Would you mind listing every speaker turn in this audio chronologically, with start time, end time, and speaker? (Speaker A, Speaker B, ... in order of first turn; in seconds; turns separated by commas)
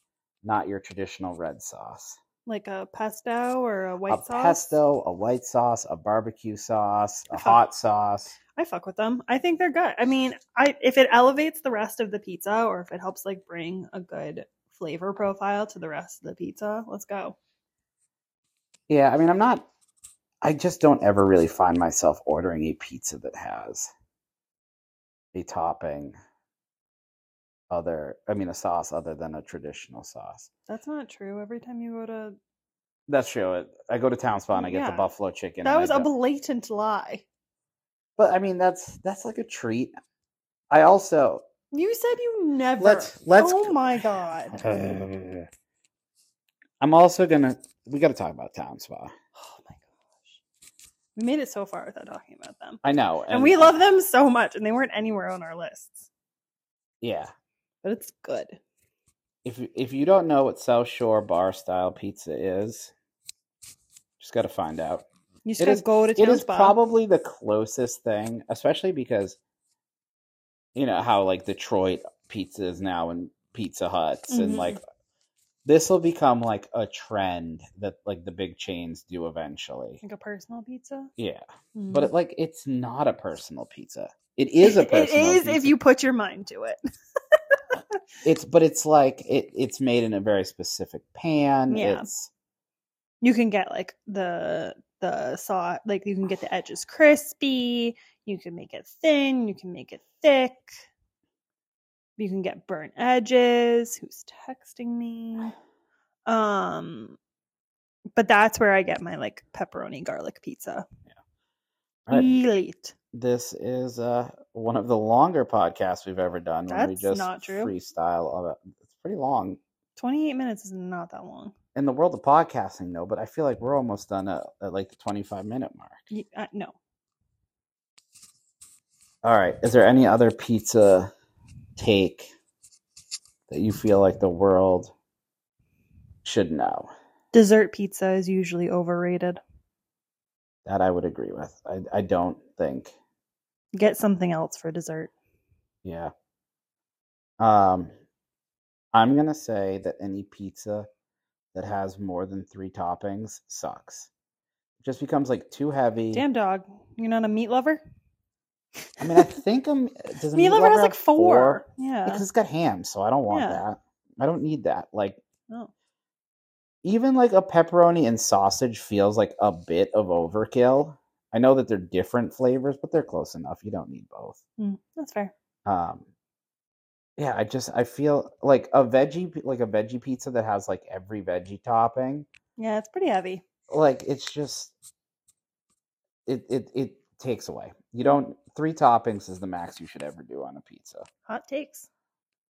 Speaker A: 0.4-2.2, Speaker B: 2.5-4.8, Speaker A: 4.1-8.4, Speaker B: 7.3-7.6, Speaker B: 8.6-17.4, Speaker A: 18.9-19.7, Speaker A: 20.4-23.9, Speaker A: 25.3-26.2, Speaker A: 27.7-30.5, Speaker B: 30.7-32.4, Speaker A: 33.1-36.1, Speaker B: 34.5-35.1, Speaker B: 35.6-37.2, Speaker A: 38.2-39.9, Speaker A: 40.7-41.5, Speaker B: 41.7-44.6, Speaker A: 42.8-43.9, Speaker A: 44.5-45.5, Speaker A: 46.8-49.1, Speaker B: 49.4-50.4, Speaker B: 51.2-56.1, Speaker A: 52.8-53.8, Speaker A: 57.0-57.3, Speaker B: 57.8-58.6, Speaker A: 59.4-62.9, Speaker A: 64.2-65.0, Speaker B: 65.5-66.8, Speaker A: 65.6-69.4, Speaker A: 70.8-74.8, Speaker B: 74.3-74.8, Speaker A: 75.7-80.0, Speaker B: 80.0-81.1, Speaker A: 81.2-85.8, Speaker B: 81.8-82.1, Speaker B: 84.6-86.8, Speaker B: 87.3-88.0, Speaker A: 88.2-92.3, Speaker B: 91.7-92.1, Speaker B: 93.2-100.7, Speaker B: 102.2-105.5, Speaker B: 106.3-107.2, Speaker B: 108.2-110.8, Speaker B: 112.1-112.9, Speaker A: 113.1-119.6, Speaker B: 116.7-117.7, Speaker B: 120.0-121.5, Speaker A: 121.8-126.0, Speaker B: 126.1-126.8, Speaker A: 129.2-131.1, Speaker A: 131.8-132.3, Speaker A: 133.5-134.9, Speaker A: 136.2-136.9, Speaker B: 137.3-139.4, Speaker A: 140.7-142.9, Speaker B: 143.8-145.1, Speaker A: 145.8-146.1, Speaker A: 147.4-147.9, Speaker A: 148.9-150.9, Speaker A: 151.5-154.1, Speaker A: 154.8-156.2, Speaker B: 156.1-157.8, Speaker A: 159.0-165.2, Speaker B: 159.0-159.4, Speaker B: 160.3-162.2, Speaker B: 163.3-163.6, Speaker A: 166.8-174.4, Speaker B: 174.6-175.3, Speaker A: 175.7-176.1, Speaker A: 177.2-182.3, Speaker B: 182.6-183.4, Speaker A: 183.7-184.7, Speaker A: 186.3-191.1, Speaker B: 191.3-191.9